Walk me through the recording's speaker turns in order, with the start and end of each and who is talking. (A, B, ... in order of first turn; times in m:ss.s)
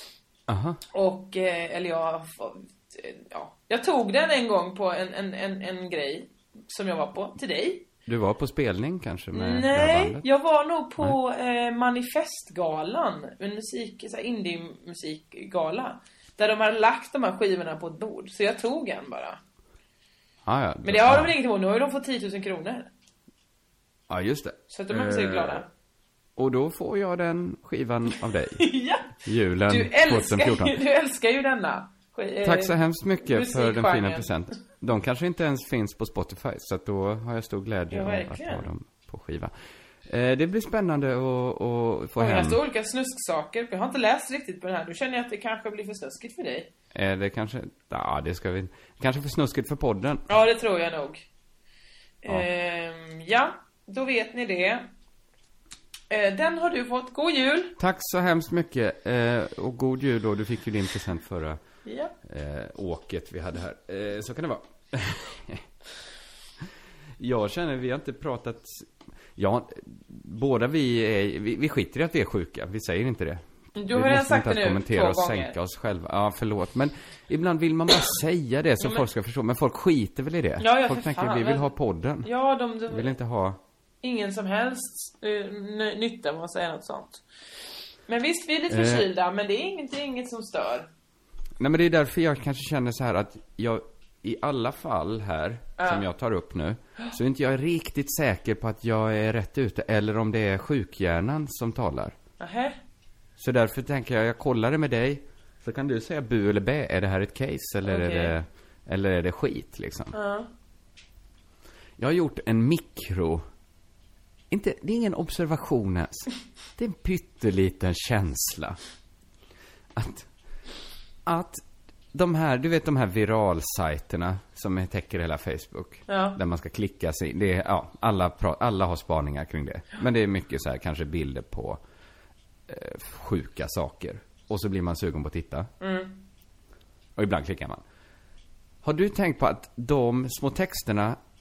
0:00.5-0:00.8 A
0:00.9-0:07.9 B
0:08.0-0:10.2 A
0:09.3-0:19.4 B
0:20.4-0:21.3 A
0:20.8-0:22.9 B
0:24.1-0:25.6 A
0:24.7-0:25.7 B
0:26.4-0:30.8 A
0:28.6-0:29.1 B
0:29.7-0:34.3 B
0:32.4-0:39.5 A
0:37.9-0:38.7 B
0:40.0-0:42.6 A
0:42.2-0:46.7 B
0:46.9-0:50.3 A
0:50.3-0:51.2 B
0:52.2-0:54.8 B
0:56.1-0:57.7 B
0:57.8-1:01.6 A
1:01.8-1:02.1 B
1:02.2-1:05.6 A
1:07.2-1:22.3 A
1:13.7-1:15.5 B
1:20.6-1:21.7 B
1:22.2-1:23.2 B
1:22.9-1:23.6 A
1:24.0-1:27.2 B
1:28.1-1:30.9 B
1:28.7-1:29.1 A
1:31.6-1:42.2 A
1:35.8-1:36.0 B
1:42.4-1:42.8 B
1:43.4-1:50.1 A
1:47.8-1:48.4 B
1:50.1-1:50.5 B
1:52.0-1:53.4 A
1:54.5-1:58.8 A
1:59.9-2:00.3 A
2:01.2-2:01.6 A
2:02.1-2:11.8 A
2:06.1-2:06.4 B
2:12.7-2:15.7 A
2:15.8-2:16.2 B
2:17.2-2:17.8 A
2:18.8-2:21.2 A